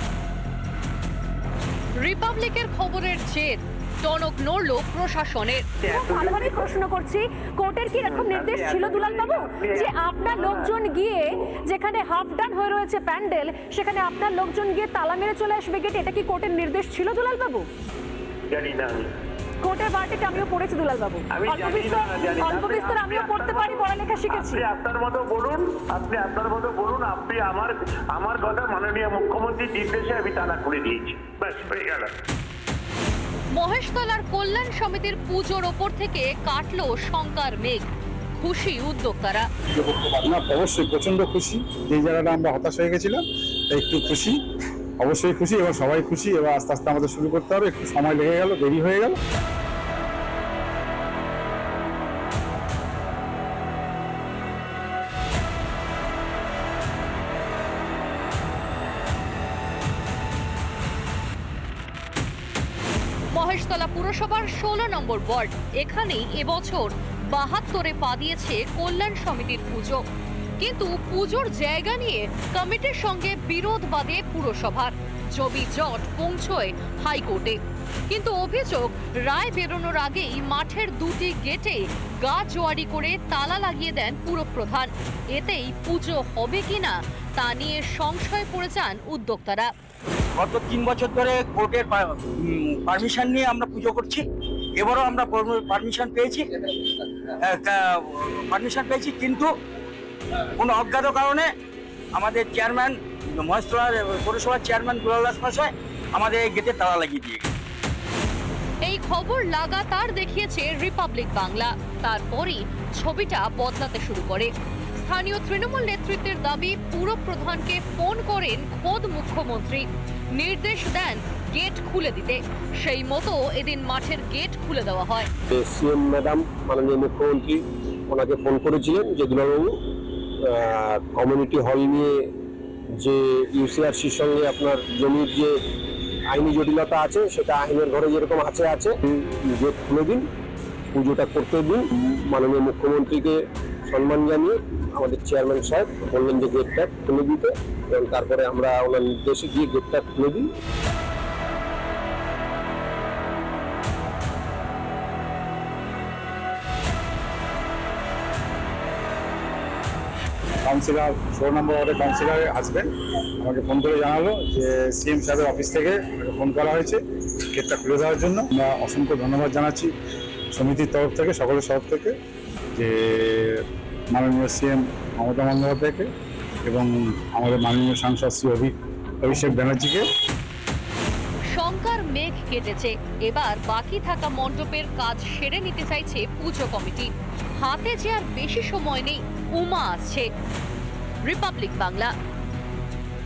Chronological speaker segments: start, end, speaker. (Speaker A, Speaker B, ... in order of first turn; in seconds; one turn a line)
Speaker A: 2.0-5.7
Speaker B: 5.8-6.6
Speaker C: 5.9-17.7
Speaker B: 8.3-9.9
Speaker B: 18.5-19.0
Speaker C: 19.6-24.7
Speaker B: 21.4-23.6
Speaker B: 24.5-32.1
Speaker A: 33.5-39.5
Speaker D: 39.8-44.3
Speaker D: 45.0-49.2
Speaker A: 63.3-70.0
Speaker A: 70.6-77.6
Speaker A: 78.1-89.7
Speaker E: 90.4-94.2
Speaker E: 94.8-96.4
Speaker E: 97.5-99.5
Speaker E: 100.6-101.5
Speaker E: 102.2-107.5
Speaker A: 108.8-125.3
Speaker F: 125.5-129.7
Speaker F: 130.4-132.2
Speaker F: 133.0-135.6
Speaker F: 136.3-140.2
Speaker F: 140.9-150.5
Speaker D: 160.7-162.9
Speaker D: 163.4-167.0
Speaker D: 167.5-169.9
Speaker D: 170.5-172.1
Speaker D: 172.7-173.6
Speaker D: 174.1-176.1
Speaker D: 176.7-180.0
Speaker A: 181.5-187.1
Speaker A: 187.6-190.3
Speaker A: 191.2-192.1